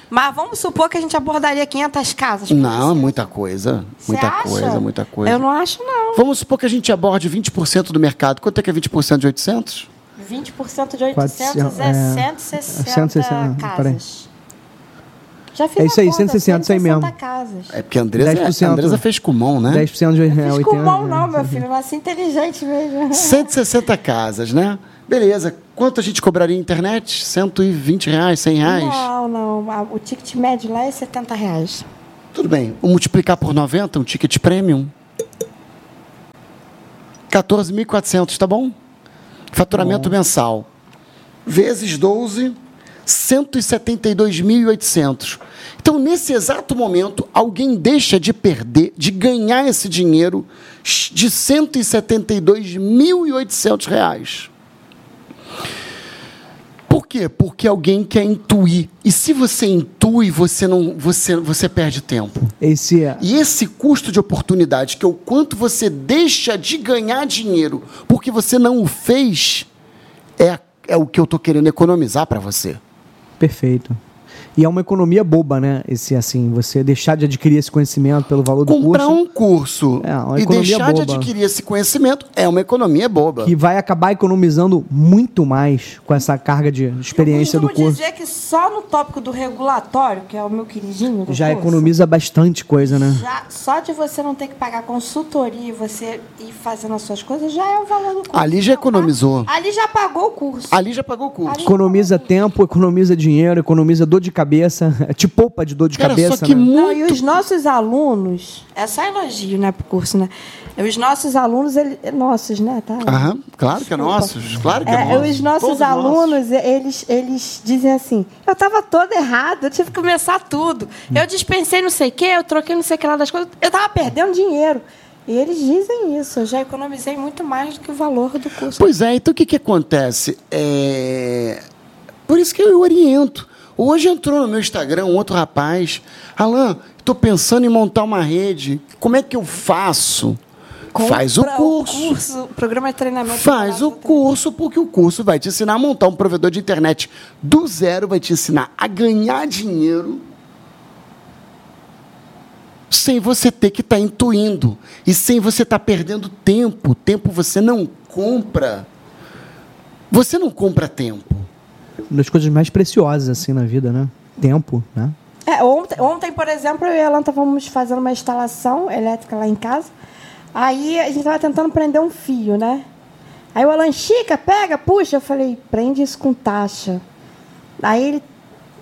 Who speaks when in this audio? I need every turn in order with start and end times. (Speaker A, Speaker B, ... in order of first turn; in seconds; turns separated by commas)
Speaker A: 0.1-3.3, Speaker B: 2.5-5.4, Speaker A: 4.0-6.2, Speaker B: 6.2-9.9, Speaker A: 10.2-14.3, Speaker C: 11.2-14.0, Speaker A: 15.5-17.8, Speaker C: 15.8-17.1, Speaker B: 17.7-19.9, Speaker C: 18.2-19.0, Speaker C: 19.7-21.6, Speaker A: 20.3-23.5, Speaker B: 23.1-29.1, Speaker A: 28.6-31.9, Speaker B: 32.3-34.9, Speaker B: 37.3-38.8, Speaker B: 39.5-40.7, Speaker C: 39.7-40.1, Speaker B: 41.5-54.5, Speaker B: 56.9-62.5, Speaker C: 62.6-63.2, Speaker B: 63.2-69.7, Speaker B: 70.4-72.8, Speaker C: 73.4-74.0, Speaker C: 74.6-79.2, Speaker B: 78.7-83.5, Speaker C: 80.0-81.3, Speaker C: 83.4-88.0, Speaker A: 87.2-91.9, Speaker C: 91.3-93.2, Speaker A: 92.8-100.8, Speaker B: 98.3-99.5, Speaker B: 100.7-101.6, Speaker A: 101.5-102.4, Speaker C: 101.6-106.7, Speaker B: 106.0-107.3, Speaker A: 106.7-128.9, Speaker B: 113.0-116.4, Speaker B: 128.8-131.6, Speaker B: 132.3-140.4, Speaker A: 140.9-144.2, Speaker B: 140.9-142.2, Speaker B: 143.3-150.2, Speaker B: 152.9-158.9, Speaker B: 160.1-161.5, Speaker C: 162.1-165.2, Speaker A: 165.5-169.9, Speaker A: 170.5-172.8, Speaker A: 173.6-177.0, Speaker A: 177.8-178.2